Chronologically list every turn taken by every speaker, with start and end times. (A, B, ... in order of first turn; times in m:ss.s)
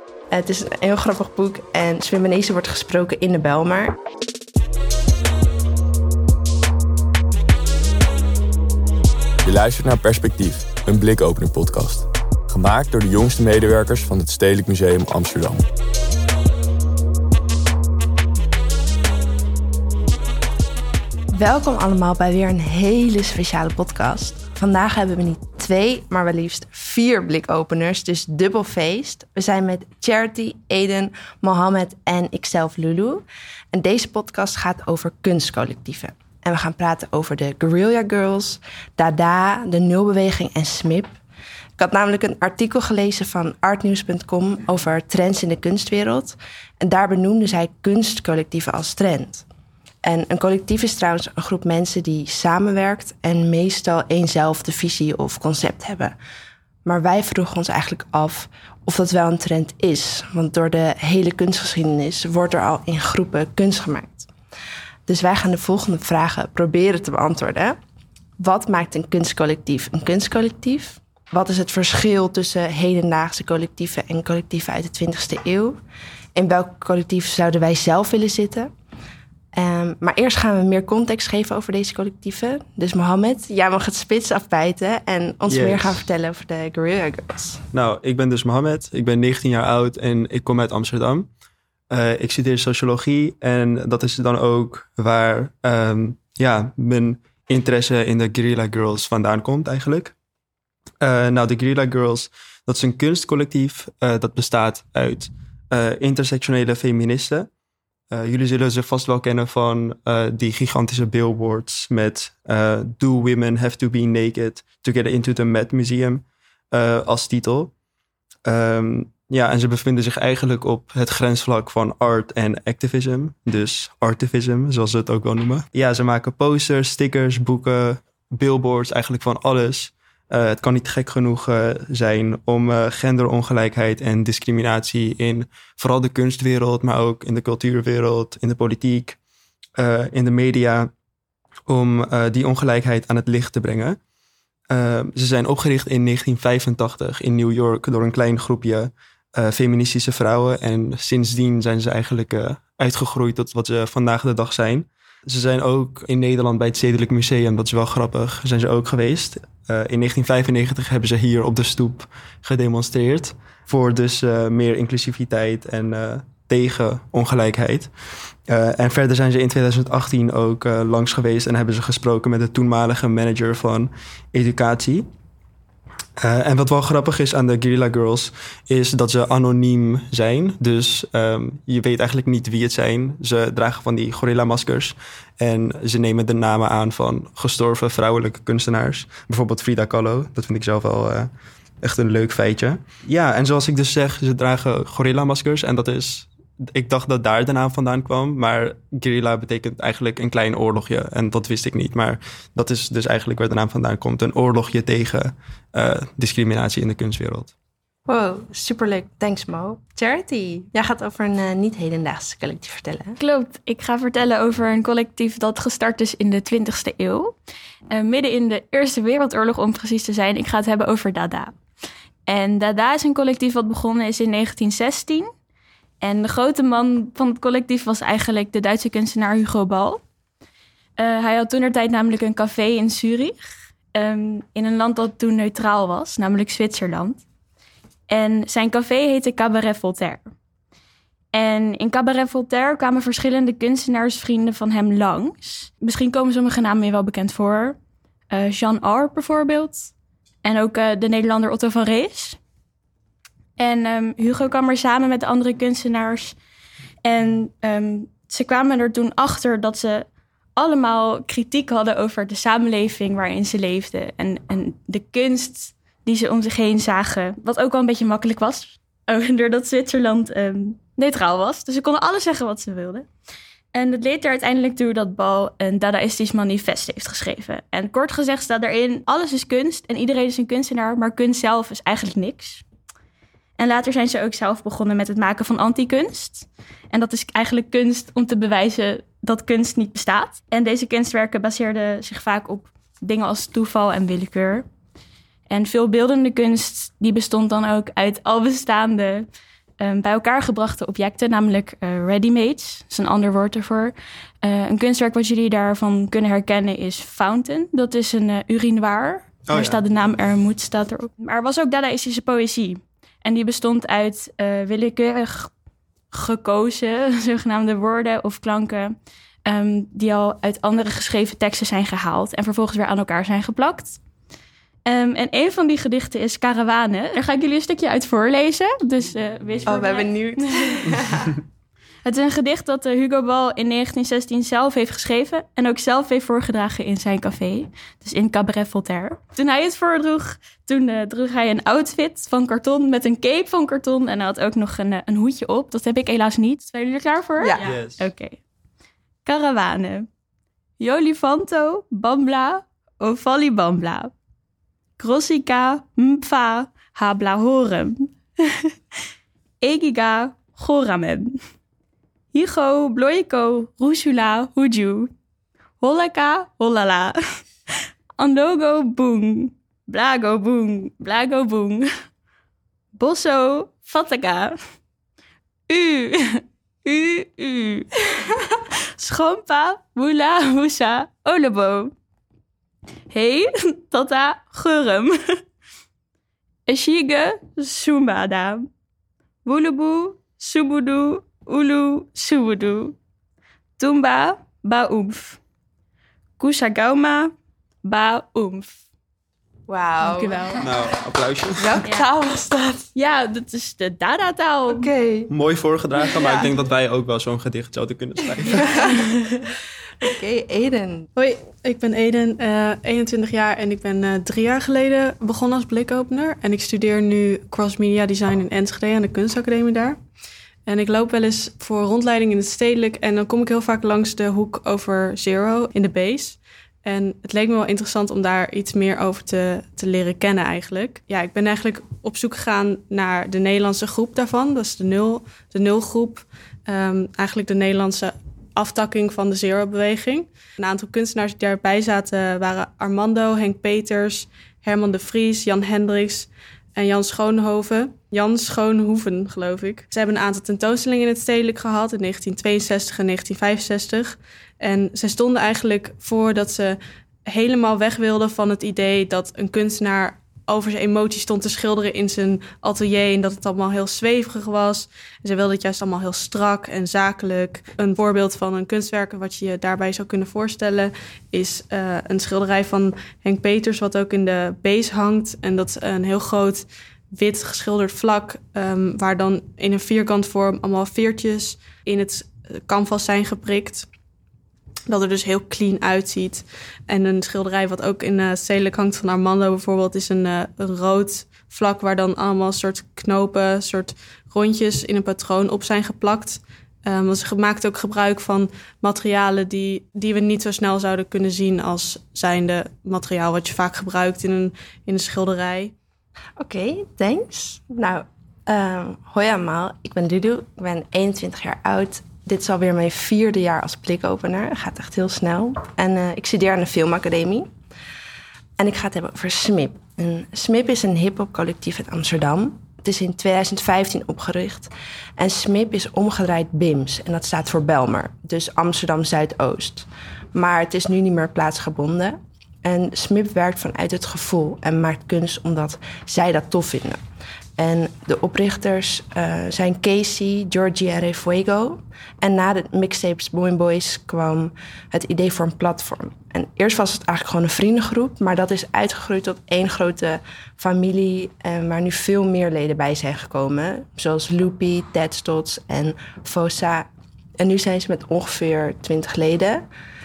0:00.3-0:04.0 A
0:09.4-0:15.6 B
0:21.3-0:41.1 A
0:41.8-0:49.4 A
0:50.0-0:56.2 A
0:56.8-1:04.3 A
1:05.1-1:07.8 A
1:08.4-1:15.8 A
1:16.3-1:18.7 A
1:19.5-1:27.6 A
1:25.5-1:26.0 C
1:27.7-1:31.3 C
1:31.9-1:40.1 C
1:41.0-1:47.5 C
1:48.1-1:57.7 C
1:58.4-2:19.2 C
2:19.8-2:20.9 C
2:21.7-2:24.0 C
2:24.7-2:47.9 C
2:48.5-2:55.1 C
2:56.2-3:11.3 C
3:11.8-3:27.5 C
3:28.1-3:33.2 A
3:33.2-3:37.3 D
3:37.9-3:41.5 D
3:42.2-3:45.3 D
3:46.0-3:50.0 D
3:51.0-3:53.4 D
3:53.9-3:57.2 D
3:58.1-4:00.3 D
4:01.3-4:07.8 D
4:08.3-4:09.9 D
4:10.4-4:12.4 D
4:13.6-4:16.4 D
4:17.0-4:33.1 D
4:33.7-4:42.6 D
4:43.6-4:54.6 D
4:55.5-4:59.3 D
4:59.8-5:15.5 D
5:09.5-5:09.8 C
5:16.1-5:18.9 D
5:19.4-5:24.0 D
5:24.9-5:30.9 D
5:29.6-5:31.3 A
5:32.0-5:48.4 D
5:47.4-5:47.7 A
5:47.6-5:48.1 C
5:49.2-5:50.1 D
5:50.8-5:54.1 D
5:55.0-5:58.7 D
5:59.6-6:01.4 D
6:02.3-6:05.1 D
6:05.8-6:07.4 D
6:08.2-6:11.9 D
6:12.9-6:14.6 D
6:15.7-6:21.9 D
6:23.1-6:25.2 D
6:26.7-6:28.7 D
6:29.4-6:33.0 D
6:33.8-6:35.4 D
6:36.4-6:37.3 D
6:37.8-6:38.8 D
6:39.7-6:40.7 A
6:40.0-6:40.6 D
6:40.6-6:41.8 C
6:41.6-6:42.9 A
6:42.9-6:44.9 D
6:44.7-6:45.3 A
6:45.3-6:48.9 C
6:48.6-6:48.9 A
6:48.9-6:49.4 D
6:50.0-6:51.1 A
6:51.2-7:00.0 E
7:00.6-8:03.9 E
8:04.9-8:25.7 E
8:26.4-8:37.5 A
8:38.6-8:57.0 A
8:57.6-9:16.9 A
9:17.4-9:19.6 A